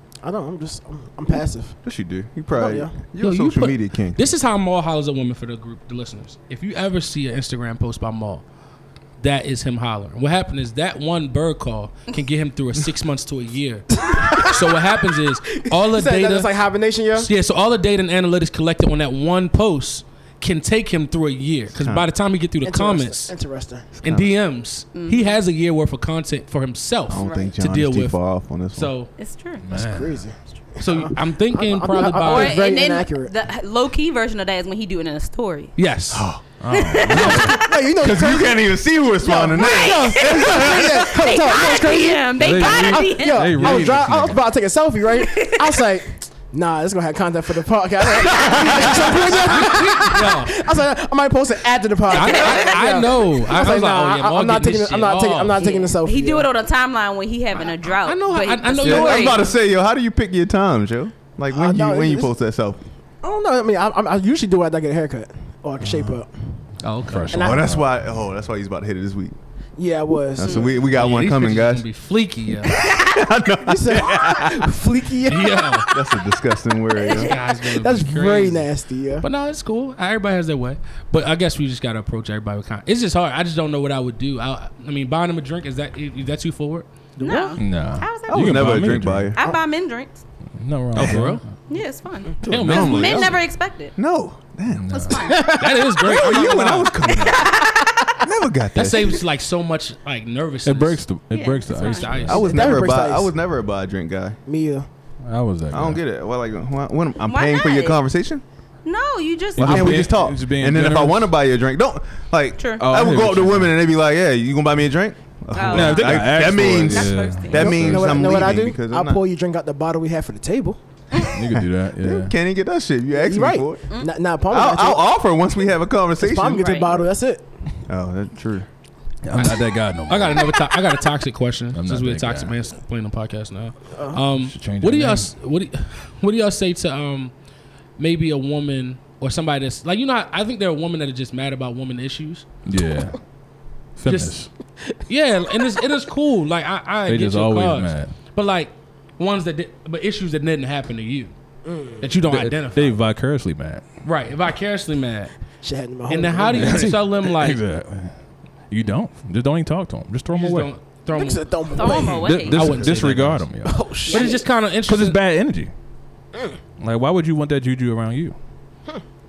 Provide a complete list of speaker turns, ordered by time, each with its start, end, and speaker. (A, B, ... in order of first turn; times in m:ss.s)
0:00.2-0:01.8 A
0:01.8-0:04.2 B
0:02.5-0:02.9 A
0:03.2-0:08.4 C
0:09.2-0:16.5 C
0:14.0-0:14.8 A
0:15.7-0:17.3 A
0:17.1-0:23.3 C
0:21.8-0:22.1 B
0:22.6-0:23.9 A
0:24.0-0:24.3 B
0:24.0-0:29.1 C
0:24.9-0:25.4 D
0:27.1-0:28.9 B
0:27.2-0:27.5 D
0:29.2-0:29.6 D
0:29.6-0:30.2 E
0:29.7-0:33.3 A
0:30.8-0:32.6 C
0:32.1-0:35.7 D
0:35.8-0:36.3 C
0:36.1-0:36.4 B
0:36.6-0:37.6 E
0:36.7-0:37.8 D
0:37.1-0:56.5 A
0:37.9-0:41.1 B
0:39.5-0:43.6 D
0:42.4-0:44.4 E
0:45.2-0:45.8 D
0:48.6-0:50.6 C
0:52.1-0:55.6 C
0:52.2-0:53.0 D
0:55.6-0:59.5 D
0:58.0-0:59.5 C
0:58.8-1:02.8 B
1:01.5-1:02.3 A
1:03.2-1:06.3 A
1:06.8-1:07.4 C
1:07.1-1:07.9 E
1:07.3-1:07.7 A
1:07.3-1:09.4 B
1:09.8-1:10.8 A
1:10.4-1:11.8 B
1:10.4-1:10.7 D
1:10.8-1:12.8 C
1:12.6-1:14.7 B
1:13.6-1:15.8 A
1:15.3-1:15.9 C
1:15.9-1:17.3 B
1:17.0-1:17.3 D
1:17.1-1:18.7 C
1:17.6-1:19.2 A
1:19.2-1:26.9 C
1:27.2-1:27.6 A
1:27.2-1:28.7 D
1:27.6-1:29.3 E
1:28.3-1:29.4 B
1:29.3-1:30.2 D
1:30.6-1:31.5 E
1:30.9-1:31.4 C
1:31.7-1:34.0 D
1:32.4-1:37.6 B
1:32.4-1:33.3 C
1:34.7-1:35.3 E
1:34.9-1:35.4 D
1:35.2-1:36.3 A
1:35.5-1:37.1 C
1:37.0-1:38.0 D
1:38.2-1:39.2 B
1:38.7-1:41.0 C
1:40.6-1:42.6 E
1:41.3-1:42.4 D
1:41.7-1:42.8 C
1:42.3-1:44.4 B
1:42.4-1:43.3 A
1:44.4-1:44.9 A
1:45.2-1:46.0 E
1:45.7-1:48.4 B
1:47.2-1:48.0 D
1:48.8-1:50.1 D
1:49.6-1:59.2 B
1:49.6-1:51.3 E
1:52.6-1:52.8 D
1:52.8-1:53.8 E
1:55.5-1:57.9 D
1:55.7-1:58.6 E
1:57.5-2:00.8 A
2:01.2-2:02.4 E
2:02.0-2:03.8 B
2:03.1-2:05.1 A
2:03.9-2:04.1 D
2:04.5-2:06.9 B
2:06.2-2:07.5 A
2:06.6-2:06.9 D
2:07.9-2:08.7 B
2:09.2-2:10.6 E
2:09.4-2:17.3 C
2:11.7-2:12.5 E
2:13.9-2:14.2 A
2:14.4-2:15.3 E
2:18.0-2:22.4 C
2:22.6-2:23.2 E
2:24.0-2:24.5 E
2:24.0-2:24.4 C
2:25.0-2:31.3 C
2:25.5-2:25.8 A
2:27.1-2:28.2 E
2:31.6-2:32.1 A
2:32.0-2:33.0 C
2:32.2-2:33.8 E
2:34.0-2:35.3 C
2:35.6-2:37.0 A
2:36.1-2:37.6 C
2:36.6-2:38.1 E
2:38.7-2:40.7 E
2:40.3-2:41.9 C
2:41.1-2:42.3 A
2:41.7-2:42.6 D
2:42.2-2:45.7 E
2:42.5-2:45.2 C
2:42.6-2:43.0 B
2:43.6-2:44.4 A
2:46.8-2:48.4 E